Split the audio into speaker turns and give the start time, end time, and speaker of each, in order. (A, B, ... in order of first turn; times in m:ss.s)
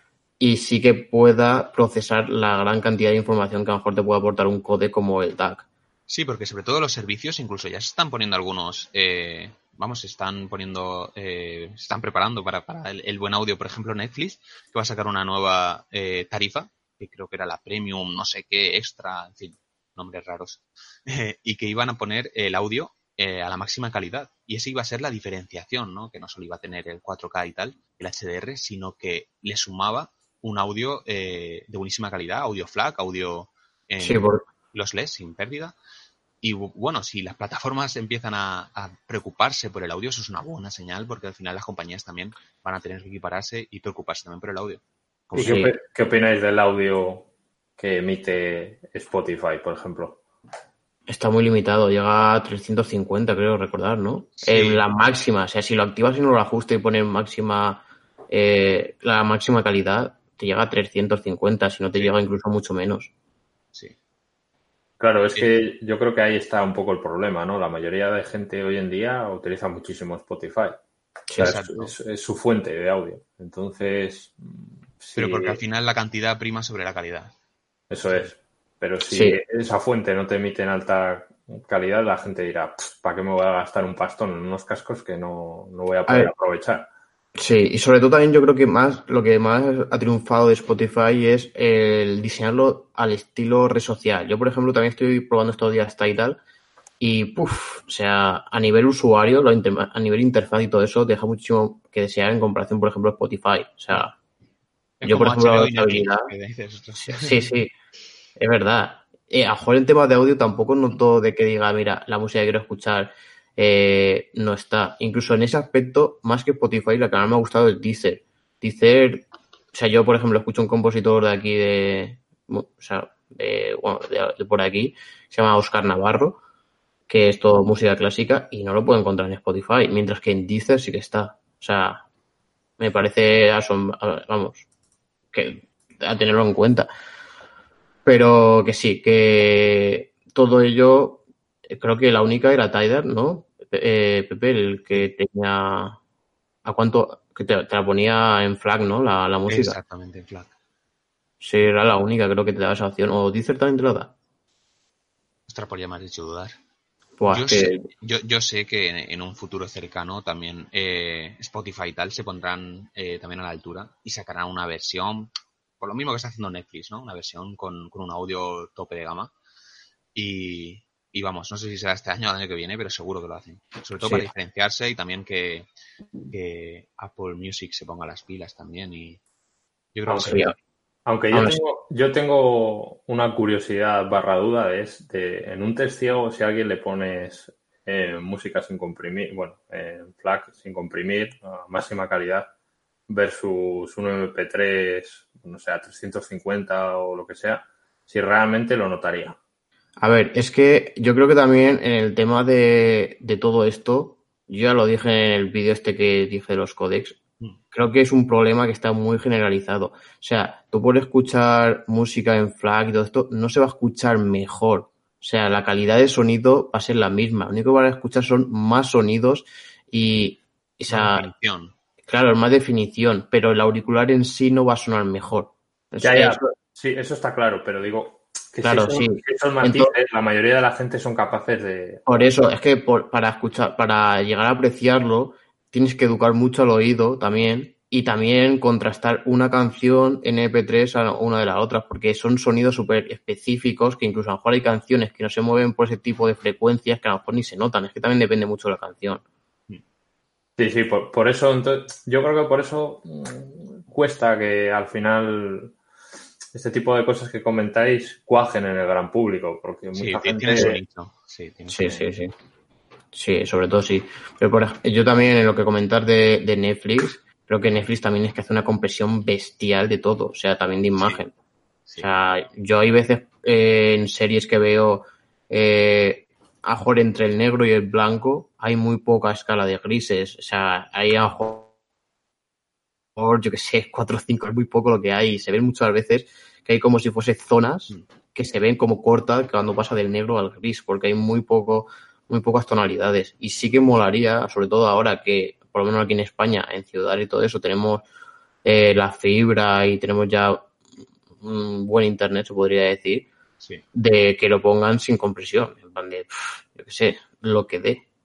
0:00.4-0:05.6 A
0:06.1-0:35.7 B
0:34.0-0:34.4 A
0:36.4-0:44.8 B
0:45.3-0:45.7 A
0:45.3-0:50.2 C
0:51.1-1:03.1 A
0:54.4-0:54.8 B
1:05.0-1:10.8 C
1:11.3-1:11.5 A
1:11.4-1:11.9 B
1:11.4-1:15.6 C
1:15.2-1:17.3 B
1:17.9-1:26.9 C
1:19.1-1:19.4 A
1:26.1-1:26.3 A
1:27.4-1:36.4 A
1:37.0-1:44.1 A
1:45.0-1:47.4 B
1:45.0-1:46.3 A
1:47.0-1:47.7 A
1:48.4-2:06.4 A
2:07.1-2:12.0 A
2:12.8-2:14.6 A
2:15.3-2:16.9 A
2:18.0-2:26.0 A
2:26.6-2:29.8 A
2:29.5-2:30.5 B
2:31.4-2:34.1 A
2:35.5-2:36.5 B
2:37.2-2:37.8 A
2:37.3-2:49.3 B
2:50.1-2:55.7 B
2:54.0-2:54.3 A
2:56.3-2:59.2 B
2:59.9-3:00.5 B
3:00.1-3:00.4 C
3:00.2-3:00.5 A
3:01.0-3:12.5 C
3:01.3-3:01.6 A
3:13.1-3:19.4 C
3:20.0-3:27.2 A
3:27.7-3:41.2 A
3:40.9-3:41.7 B
3:42.1-3:46.4 A
3:46.0-3:52.0 C
3:48.6-3:49.9 A
3:52.0-4:09.2 A
4:10.6-4:15.7 C
4:16.5-4:20.8 C
4:19.9-4:22.1 B
4:21.7-4:22.3 A
4:23.1-4:31.3 A
4:32.0-4:41.7 A
4:43.2-4:58.0 A
4:58.6-5:00.7 A
5:01.4-5:03.3 A
5:03.9-5:08.0 A